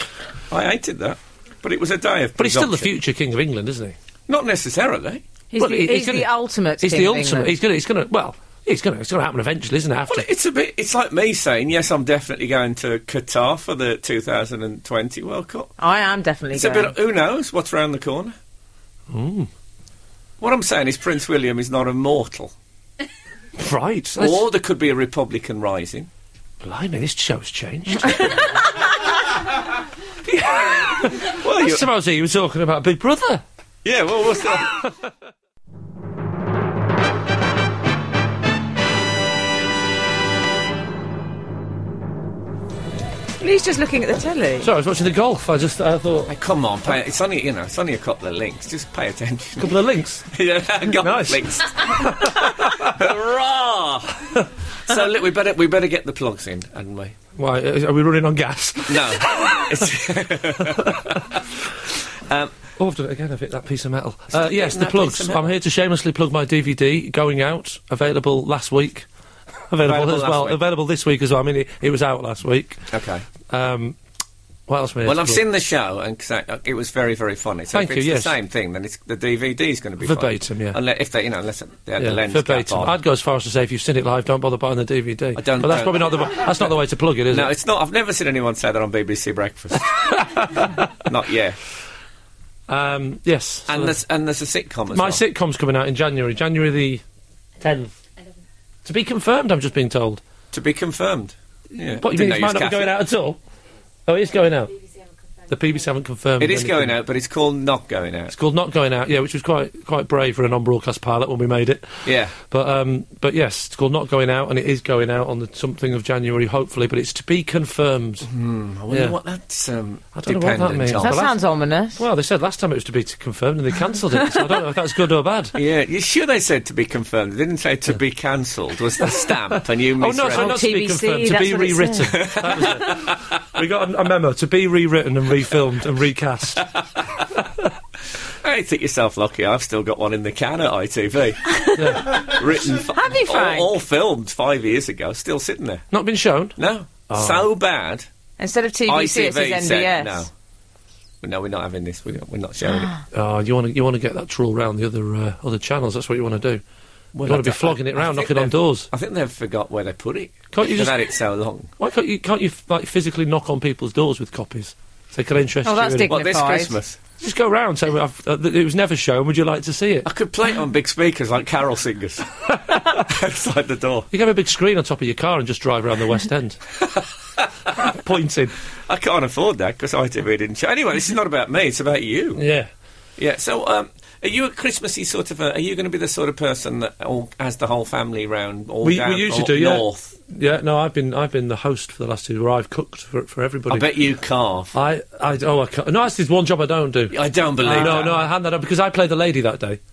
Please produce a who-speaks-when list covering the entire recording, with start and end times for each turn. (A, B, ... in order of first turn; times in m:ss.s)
0:00.5-0:02.9 A
0:02.4-0:04.0 B
0:04.3-0:05.2 A
0:05.5-0:07.5 C
0:05.6-0:10.3 B
0:10.1-0:15.7 A
0:15.8-0:16.9 C
0:16.5-0:18.3 A
0:19.1-0:19.5 B
0:20.4-0:22.5 A
0:23.6-0:24.5 B
0:24.2-0:26.1 A
0:26.6-0:28.8 B
0:30.2-0:33.4 B
0:31.3-0:31.8 A
0:33.8-0:34.7 A
0:43.4-0:44.7 C
0:44.6-0:46.3 B
0:46.3-0:49.8 A
0:49.6-0:50.3 B
0:50.3-0:54.3 A
0:51.0-0:53.0 B
0:54.9-0:57.2 A
0:57.4-0:59.9 B
0:58.9-1:01.4 A
1:00.6-1:01.0 B
1:02.2-1:02.5 A
1:02.8-1:09.1 B
1:04.3-1:05.5 A
1:09.7-1:12.8 B
1:09.8-1:10.6 A
1:12.9-1:13.2 A
1:13.5-1:14.0 B
1:14.7-1:15.4 B
1:15.0-1:23.0 A
1:17.7-1:18.3 B
1:20.0-1:20.8 B
1:22.0-1:27.5 B
1:25.4-1:26.7 A
1:27.3-1:31.6 A
1:30.0-1:30.9 B
1:32.7-1:34.0 B
1:33.7-1:35.2 A
1:34.9-1:37.0 B
1:37.6-1:38.0 B
1:38.8-1:40.2 B
1:40.5-1:42.9 A
1:42.0-1:43.4 B
1:44.1-1:44.8 B
1:45.5-1:47.0 B
1:46.4-1:48.3 A
1:48.3-1:58.3 B
1:52.0-1:52.4 A
1:58.2-2:01.2 A
1:58.9-1:59.2 B
2:00.1-2:01.4 B
2:01.0-2:02.0 C
2:02.0-2:05.6 B
2:05.6-2:10.6 A
2:09.1-2:16.6 B
2:10.3-2:12.4 C
2:12.1-2:13.3 A
2:16.6-2:17.1 A
2:17.4-2:17.7 B
2:18.4-2:25.9 A
2:21.5-2:22.3 C
2:21.8-2:22.2 B
2:22.9-2:23.8 C
2:25.9-2:26.6 B
2:26.6-2:28.1 A
2:27.1-2:27.5 B
2:28.4-2:30.3 C
2:28.9-2:30.3 A
2:31.2-2:32.9 A
2:33.1-2:36.6 B
2:37.1-2:41.7 A
2:37.2-2:38.9 B
2:40.5-2:41.0 B
2:41.8-2:46.1 B
2:45.6-2:46.8 C
2:46.1-2:47.0 A
2:47.2-2:50.1 B
2:50.0-2:54.1 A
2:54.1-2:56.6 B
2:57.8-2:58.5 B
2:58.9-3:02.4 A
3:02.4-3:02.7 B
3:03.2-3:10.1 A
3:08.8-3:13.9 B
3:13.7-3:14.7 A
3:14.7-3:17.2 B
3:17.1-3:18.2 A
3:17.6-3:18.0 C
3:17.7-3:19.8 B